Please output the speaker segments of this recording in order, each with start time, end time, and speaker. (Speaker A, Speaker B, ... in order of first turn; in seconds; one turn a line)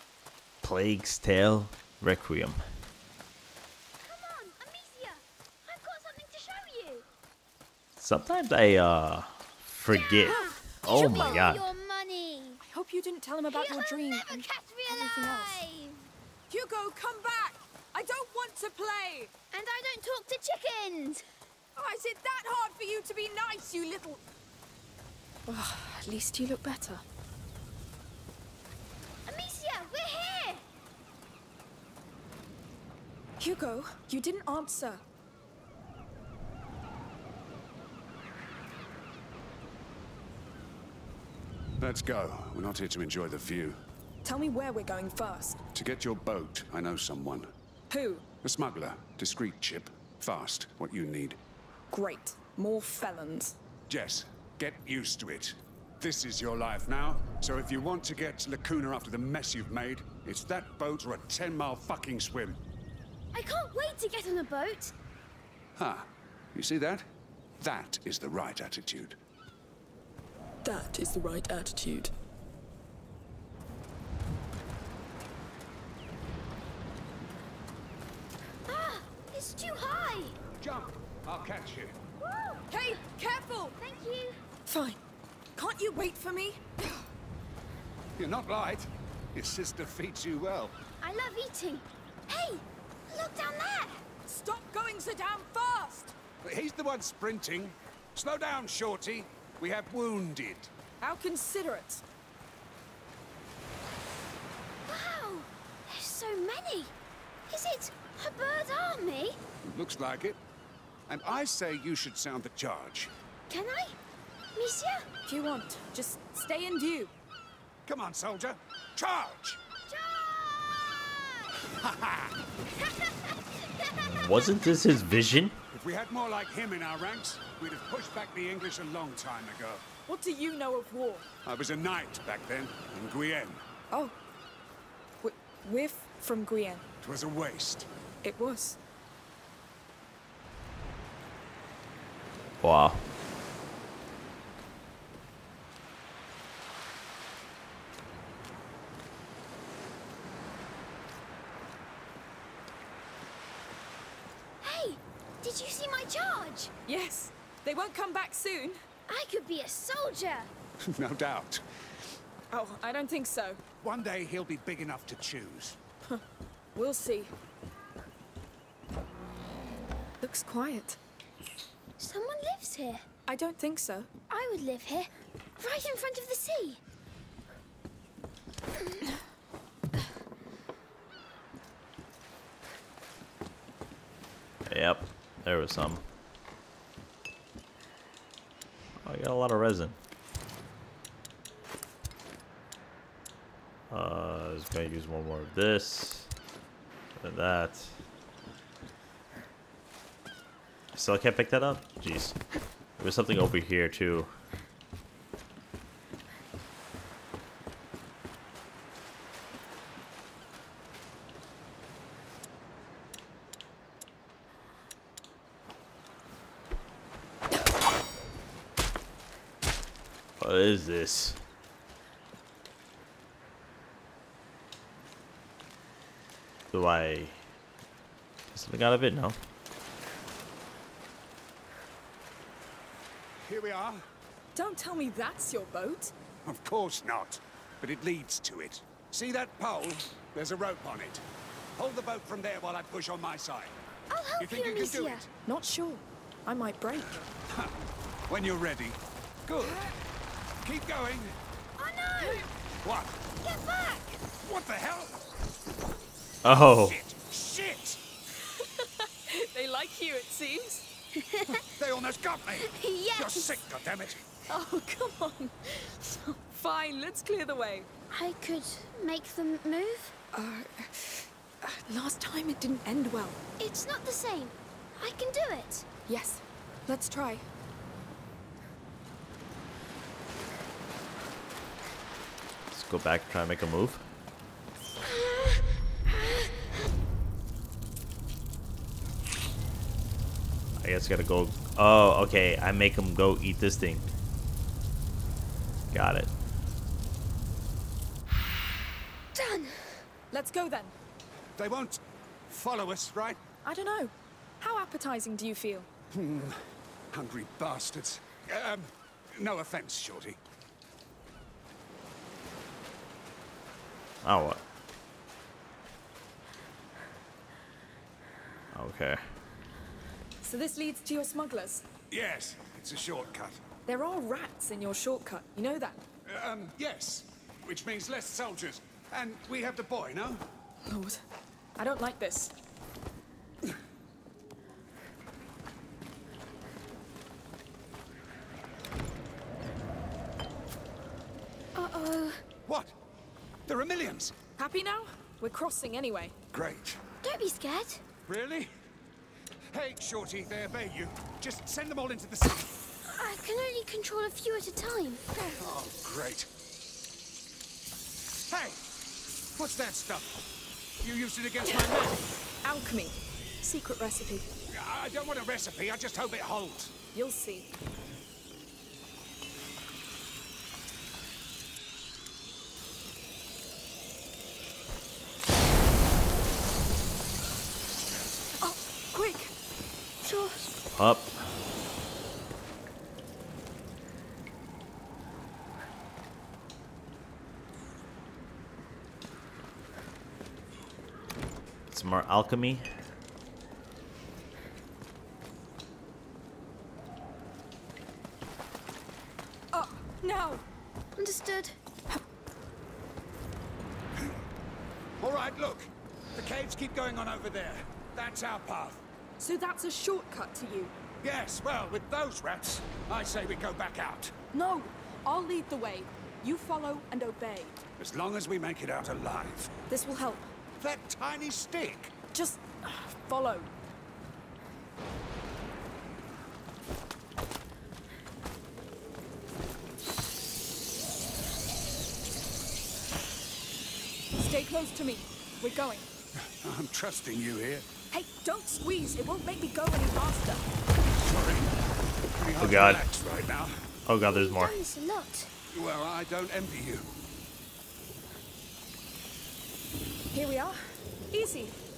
Speaker A: 0.6-2.6
Speaker B: 4.0-7.0
Speaker A: 8.0-11.7
Speaker B: 9.9-12.6
Speaker C: 10.3-11.4
Speaker C: 12.6-15.6
Speaker B: 13.5-16.1
Speaker C: 16.5-19.3
Speaker B: 19.5-21.2
Speaker C: 21.8-24.2
Speaker C: 25.5-27.0
Speaker B: 29.3-30.6
Speaker C: 33.4-35.0
Speaker D: 41.8-43.8
Speaker C: 44.2-45.6
Speaker D: 45.7-47.5
Speaker C: 47.9-48.3
Speaker D: 48.4-51.4
Speaker C: 51.9-53.6
Speaker D: 53.9-62.6
Speaker B: 63.3-65.0
Speaker D: 65.8-67.1
Speaker D: 67.6-69.2
Speaker C: 70.6-72.1
Speaker B: 78.7-80.4
Speaker D: 80.6-82.0
Speaker B: 82.2-83.0
Speaker C: 82.7-83.8
Speaker B: 83.8-84.4
Speaker C: 84.7-85.0
Speaker C: 85.6-87.1
Speaker D: 88.2-90.8
Speaker B: 91.0-94.0
Speaker C: 94.3-96.1
Speaker D: 96.4-100.7
Speaker C: 101.0-102.0
Speaker B: 104.9-106.9
Speaker B: 107.5-109.4
Speaker D: 109.6-110.4
Speaker D: 111.1-113.1
Speaker B: 113.5-114.0
Speaker B: 114.5-115.1
Speaker C: 115.3-117.1
Speaker D: 117.9-119.6
Speaker B: 119.9-121.6
Speaker D: 121.7-122.4
Speaker B: 122.7-123.9
Speaker A: 123.9-125.6
Speaker D: 125.7-129.8
Speaker C: 130.1-131.3
Speaker D: 131.4-133.6
Speaker C: 133.9-134.2
Speaker C: 135.2-136.9
Speaker D: 137.0-137.9
Speaker C: 138.2-138.8
Speaker A: 142.6-143.0
Speaker B: 154.6-156.7
Speaker C: 156.9-158.8
Speaker B: 159.1-160.5
Speaker D: 160.8-161.6
Speaker C: 162.5-163.6
Speaker D: 163.8-165.8
Speaker C: 166.8-167.3
Speaker C: 170.2-171.0
Speaker B: 172.0-173.0
Speaker C: 173.3-174.1
Speaker B: 174.3-176.8
Speaker A: 184.7-186.0
Speaker A: 189.0-190.0
Speaker A: 193.9-196.3
Speaker A: 197.2-198.0
Speaker A: 200.9-202.4
Speaker A: 203.0-204.3
Speaker A: 220.4-221.4
Speaker A: 226.7-227.4
Speaker A: 228.5-229.4
Speaker D: 233.4-234.1
Speaker C: 234.6-236.1
Speaker D: 236.4-241.2
Speaker D: 241.8-243.8
Speaker B: 244.1-245.3
Speaker D: 244.4-245.3
Speaker C: 245.5-247.2
Speaker D: 247.5-247.8
Speaker D: 248.3-249.8
Speaker C: 249.6-249.9
Speaker D: 250.6-251.3
Speaker B: 251.8-252.5
Speaker C: 252.2-252.5
Speaker D: 252.8-253.2
Speaker B: 253.4-254.2
Speaker D: 254.4-255.3
Speaker A: 256.4-257.0
Speaker D: 256.5-258.0
Speaker C: 258.4-260.9
Speaker B: 261.1-261.6
Speaker D: 261.5-264.2
Speaker B: 262.6-263.6
Speaker C: 264.5-267.9
Speaker B: 268.1-270.2
Speaker C: 270.3-273.4
Speaker B: 273.6-275.9
Speaker C: 276.1-277.4
Speaker A: 282.7-284.1
Speaker B: 285.0-286.5
Speaker A: 290.8-294.1
Speaker A: 295.9-296.3
Speaker B: 299.3-300.0
Speaker C: 300.3-300.9
Speaker D: 301.6-303.4
Speaker C: 303.6-305.9
Speaker D: 306.1-306.6
Speaker D: 307.1-310.4
Speaker A: 314.2-314.6
Speaker A: 318.7-319.2
Speaker C: 320.4-321.9
Speaker D: 322.1-323.6
Speaker C: 323.9-326.0
Speaker D: 326.3-330.4
Speaker C: 330.9-331.2
Speaker C: 331.8-332.6
Speaker B: 341.7-342.4
Speaker D: 342.7-342.9
Speaker D: 343.7-344.4
Speaker C: 344.6-346.4
Speaker D: 346.5-347.0
Speaker B: 347.2-348.0
Speaker D: 348.3-348.7
Speaker D: 349.7-352.8
Speaker B: 353.1-355.2
Speaker D: 355.6-356.5
Speaker D: 358.5-358.8
Speaker D: 359.6-360.4
Speaker D: 361.0-362.2
Speaker C: 361.6-362.1
Speaker C: 362.6-364.5
Speaker D: 364.7-366.9
Speaker C: 367.1-367.7
Speaker C: 378.6-379.5
Speaker B: 380.2-380.7
Speaker A: 380.9-381.5
Speaker A: 391.9-392.9
Speaker C: 399.7-400.6
Speaker B: 401.2-401.8
Speaker D: 405.2-409.0
Speaker C: 409.4-410.9
Speaker D: 411.2-414.3
Speaker C: 414.5-417.8
Speaker D: 418.0-419.7
Speaker C: 419.9-420.5
Speaker D: 420.8-422.1
Speaker C: 422.3-423.7
Speaker C: 434.4-436.1
Speaker D: 436.4-437.9
Speaker C: 438.1-440.6
Speaker D: 441.2-441.8
Speaker D: 442.3-443.9
Speaker A: 442.6-443.0
Speaker A: 444.1-444.8
Speaker B: 444.2-445.5
Speaker D: 445.7-447.1
Speaker C: 450.3-451.8